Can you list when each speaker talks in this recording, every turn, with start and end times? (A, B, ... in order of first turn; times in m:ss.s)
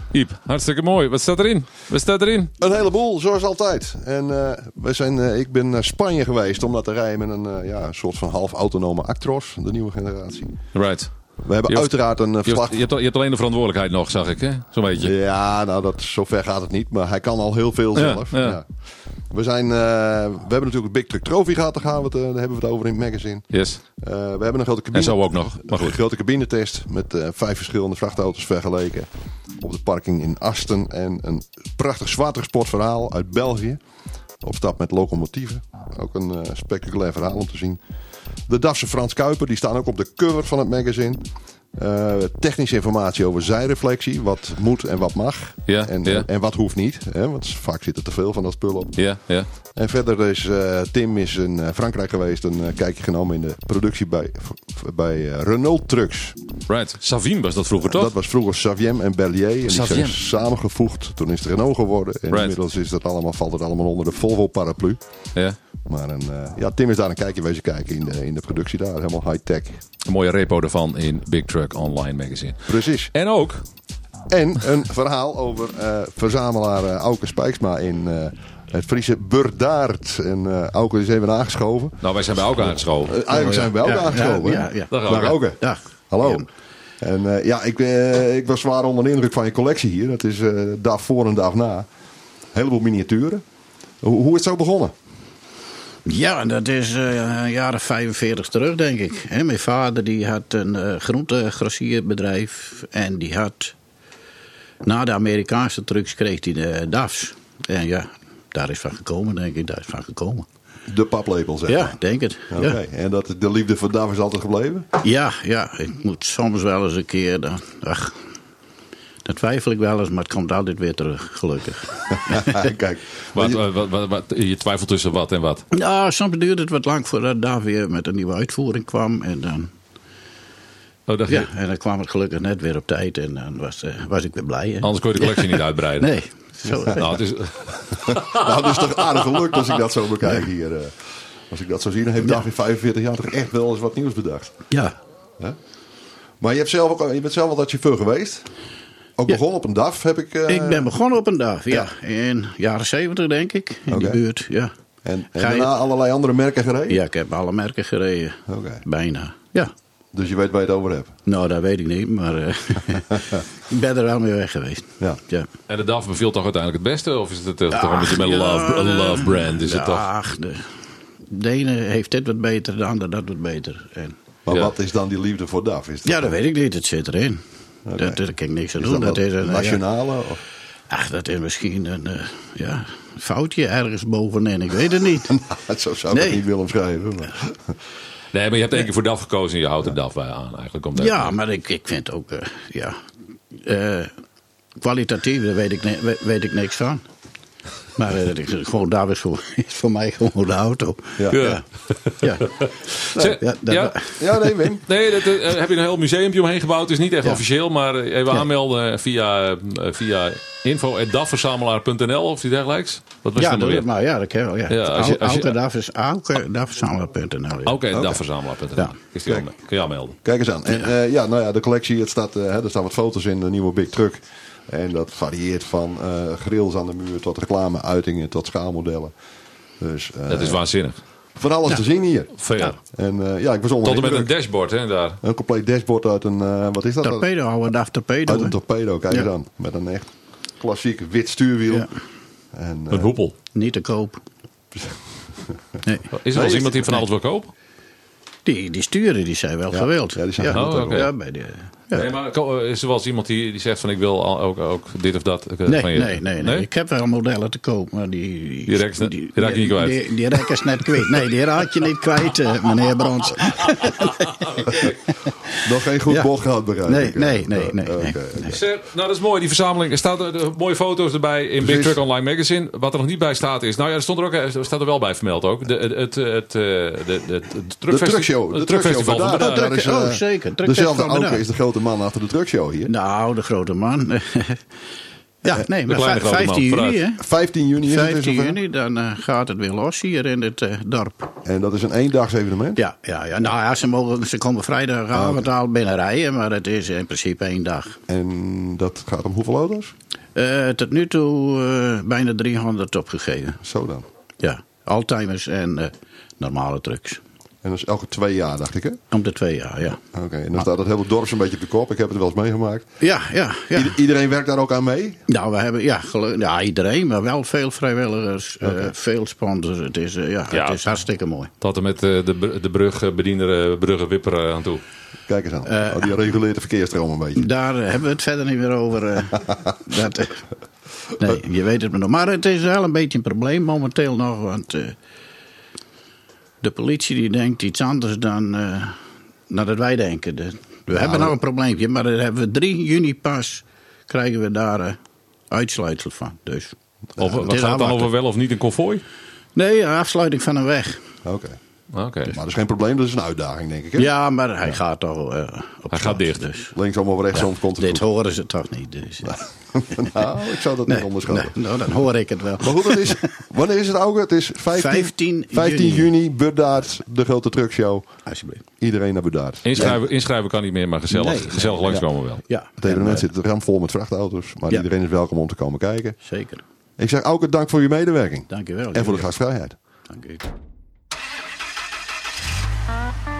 0:00.1-0:02.5 A
0:02.6-0:10.5 B
0:10.7-0:11.1 A
0:11.4-0:12.8 B
0:11.7-0:15.1 A
0:15.0-0:18.6 B
0:17.9-0:18.6 A
0:19.3-0:23.4 B
0:23.5-0:23.8 A
0:24.0-0:29.1 B
0:24.9-0:26.0 A
0:29.6-0:33.8 B
0:34.4-0:37.8 B
0:38.5-0:41.2 B
0:41.7-0:49.0 B
0:45.7-0:46.3 A
0:49.0-0:49.5 A
0:49.8-0:56.4 B
0:56.7-0:58.1 A
0:57.8-1:05.0 B
0:59.7-1:00.2 A
1:05.9-1:09.8 B
1:10.0-1:13.6 A
1:12.7-1:13.1 B
1:14.3-1:22.0 B
1:22.0-1:23.2 A
1:23.0-1:26.4 B
1:23.3-1:24.9 C
1:24.9-1:25.4 A
1:25.6-1:26.4 C
1:27.0-1:31.9 B
1:32.5-1:33.4 B
1:34.0-1:34.9 B
1:36.0-1:43.7 C
1:44.8-1:50.5 C
1:50.9-1:52.0 B
1:51.7-1:52.8 C
1:52.5-1:54.9 B
1:55.0-1:58.1 C
1:59.2-2:02.7 C
2:02.3-2:03.6 B
2:03.3-2:05.6 A
2:05.7-2:09.7 C
2:11.1-2:11.5 A
2:11.3-2:17.2 C
2:14.8-2:16.1 A
2:17.0-2:18.1 A
2:17.9-2:20.9 B
2:21.5-2:24.5 B
2:26.4-2:28.5 B
2:29.2-2:30.9 B
2:30.5-2:34.7 C
2:33.9-2:34.2 B
2:35.0-2:37.0 B
2:35.4-2:35.7 C
2:36.9-2:39.7 C
2:38.5-2:38.8 B
2:40.1-2:41.1 B
2:41.2-2:45.5 C
2:45.7-2:50.1 A
2:47.7-2:50.7 C
2:51.2-2:54.2 C
2:54.4-2:56.4 B
2:54.5-2:54.7 A
2:56.0-2:57.4 C
2:57.8-2:58.2 B
2:58.0-2:59.8 C
2:58.8-3:00.4 B
3:00.9-3:05.3 C
3:05.1-3:07.6 B
3:06.1-3:06.4 C
3:08.3-3:11.3 A
3:10.9-3:13.0 C
3:13.5-3:14.1 C
3:14.8-3:17.0 C
3:18.0-3:21.6 C
3:21.3-3:22.3 A
3:22.2-3:22.7 C
3:23.0-3:23.9 A
3:23.4-3:24.2 C
3:24.2-3:24.8 B
3:24.8-3:33.9 A
3:33.4-3:37.8 C
3:34.7-3:35.6 A
3:37.6-3:40.2 A
3:37.9-3:38.2 B
3:40.2-3:49.1 B
3:49.8-3:50.6 B
3:50.3-3:51.0 A
3:51.4-3:54.3 B
3:52.4-3:52.8 A
3:53.8-3:55.2 A
3:55.2-3:57.3 B
3:57.0-3:58.6 C
3:58.3-4:01.9 B
4:02.5-4:03.1 B
4:02.9-4:03.3 A
4:03.5-4:04.2 C
4:05.8-4:07.0 C
4:06.1-4:07.5 A
4:08.4-4:12.1 C
4:09.7-4:11.1 B
4:10.5-4:11.1 A
4:11.9-4:16.7 A
4:15.6-4:24.9 C
4:18.7-4:20.4 A
4:23.9-4:24.9 A
4:25.6-4:28.6 B
4:26.8-4:28.6 C
4:28.5-4:39.8 A
4:31.6-4:32.0 B
4:37.9-4:42.9 B
4:39.6-4:41.4 C
4:42.8-4:44.6 C
4:45.4-4:47.2 C
4:45.8-4:47.0 A
4:47.2-4:48.6 B
4:47.8-4:51.3 C
4:51.4-4:52.8 B
4:52.8-4:58.0 C
4:55.1-4:55.5 B
4:58.1-4:59.9 B
5:00.3-5:03.6 C
5:03.6-5:04.0 B
5:04.4-5:07.2 C
5:07.6-5:09.0 B
5:09.1-5:10.0 C
5:10.1-5:12.9 B
5:13.0-5:13.9 C
5:13.7-5:15.2 B
5:15.3-5:21.5 C
5:18.6-5:18.9 B
5:20.5-5:20.8 A
5:21.6-5:24.8 A
5:25.3-5:27.5 B
5:25.6-5:26.2 C
5:27.4-5:30.4 C
5:31.2-5:34.9 C
5:36.6-5:39.0 C
5:39.5-5:45.0 C
5:40.9-5:41.3 B
5:45.5-5:46.7 C
5:47.2-5:49.0 A
5:47.4-5:48.1 C
5:49.5-5:51.0 C
5:51.2-5:51.6 B
5:51.9-5:52.4 A
5:52.3-5:54.1 B
5:54.0-5:56.7 C
5:55.9-5:56.4 A
5:56.7-5:58.1 B
5:57.3-5:59.4 C
5:59.2-6:01.6 B
6:00.9-6:03.2 C
6:02.6-6:08.1 B
6:04.7-6:06.1 C
6:08.2-6:08.6 C
6:08.8-6:10.0 B
6:09.6-6:12.4 A
6:11.1-6:13.2 C
6:12.8-6:16.2 B
6:16.2-6:16.6 C
6:17.0-6:19.8 B
6:18.5-6:19.3 C
6:20.1-6:20.4 C